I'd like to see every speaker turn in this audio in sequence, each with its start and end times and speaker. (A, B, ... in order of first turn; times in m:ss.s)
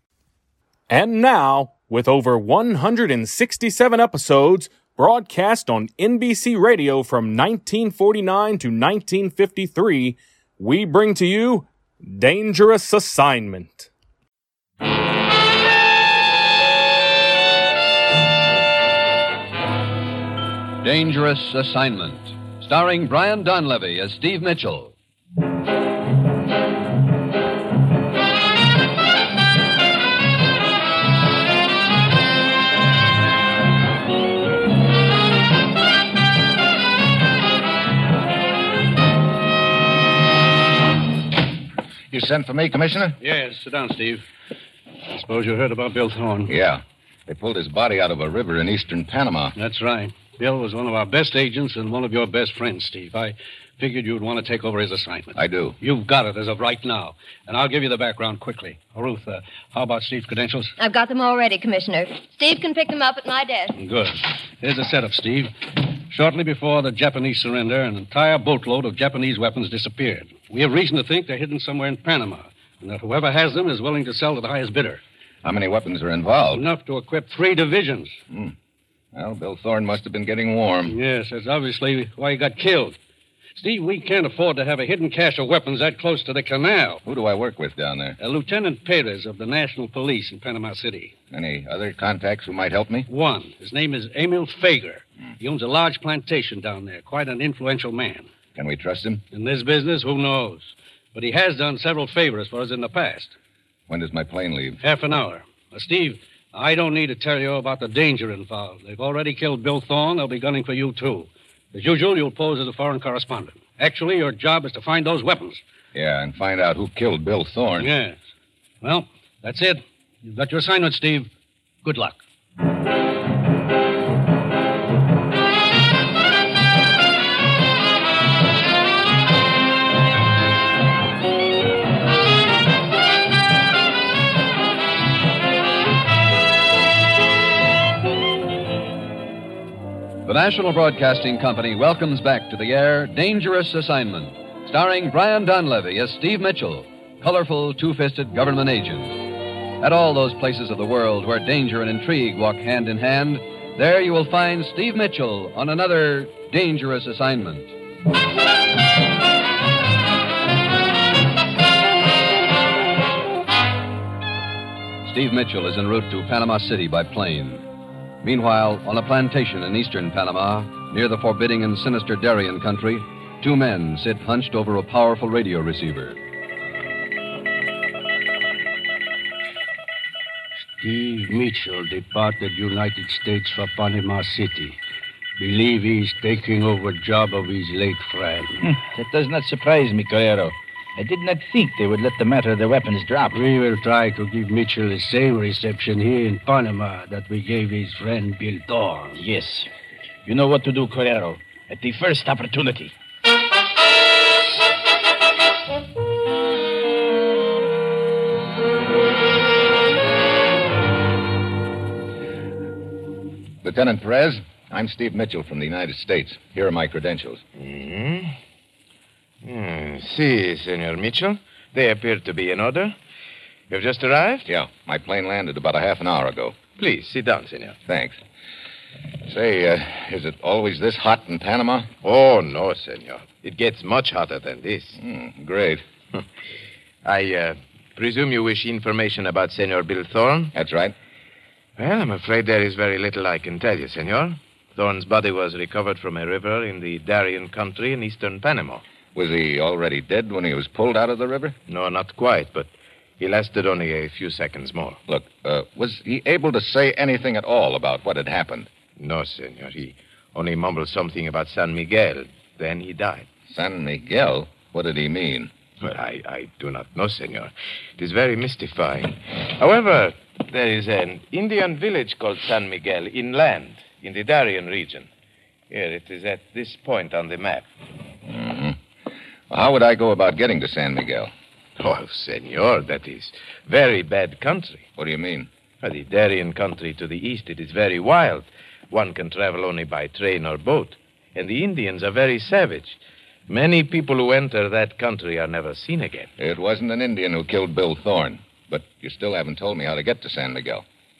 0:00.9-0:13.9 A
0:20.8-0:24.9 B
0:42.1-0:43.2 C
0:43.2-0:44.2 D
0:45.1-0:46.5 D
0:46.5-0:49.6 C
0:49.6-1:00.7 D
0:55.4-0:55.8 C
1:00.8-1:03.7 E
1:03.8-1:05.5 D
1:06.1-1:15.0 D
1:15.4-1:16.6 C
1:16.5-1:18.2 D
1:18.3-1:18.6 C
1:19.1-1:21.0 C
1:20.9-1:23.0 D
1:23.6-1:27.0 D
1:27.0-1:28.2 C
1:28.2-1:31.2 D
1:31.3-1:33.1 C
1:33.1-1:38.3 D
1:38.6-1:39.2 C
1:39.3-1:43.4 D
1:43.9-1:44.8 C
1:44.8-1:55.6 D
1:55.9-1:57.9 C
1:57.8-1:58.2 D
1:58.8-2:01.3 D
2:01.8-2:02.2 D
2:20.2-2:29.2 B
2:29.8-2:37.7 B
2:45.0-2:47.6 B
2:48.2-2:56.2 B
3:00.8-3:04.8 D
3:05.4-3:08.7 D
3:08.7-3:13.4 F
3:13.3-3:19.2 D
3:19.1-3:19.7 F
3:20.3-3:23.0 F
3:33.6-3:37.4 C
3:37.6-3:38.4 G
3:39.4-3:43.0 G
3:43.7-3:44.4 G
3:44.5-3:46.6 C
3:46.8-3:47.8 G
3:47.9-3:48.2 C
3:49.3-3:51.9 C
3:52.0-3:55.0 G
3:55.0-3:55.8 C
3:57.0-4:00.5 G
4:00.5-4:01.0 C
4:01.8-4:08.8 G
4:09.2-4:11.6 C
4:11.7-4:15.0 G
4:15.1-4:18.7 C
4:19.0-4:23.3 G
4:23.5-4:25.5 C
4:25.8-4:35.1 G
4:35.7-4:37.7 G
4:38.2-4:38.8 C
4:39.5-4:41.3 C
4:41.8-4:44.9 G
4:45.0-4:45.5 C
4:45.8-4:56.3 G
4:56.4-5:00.8 C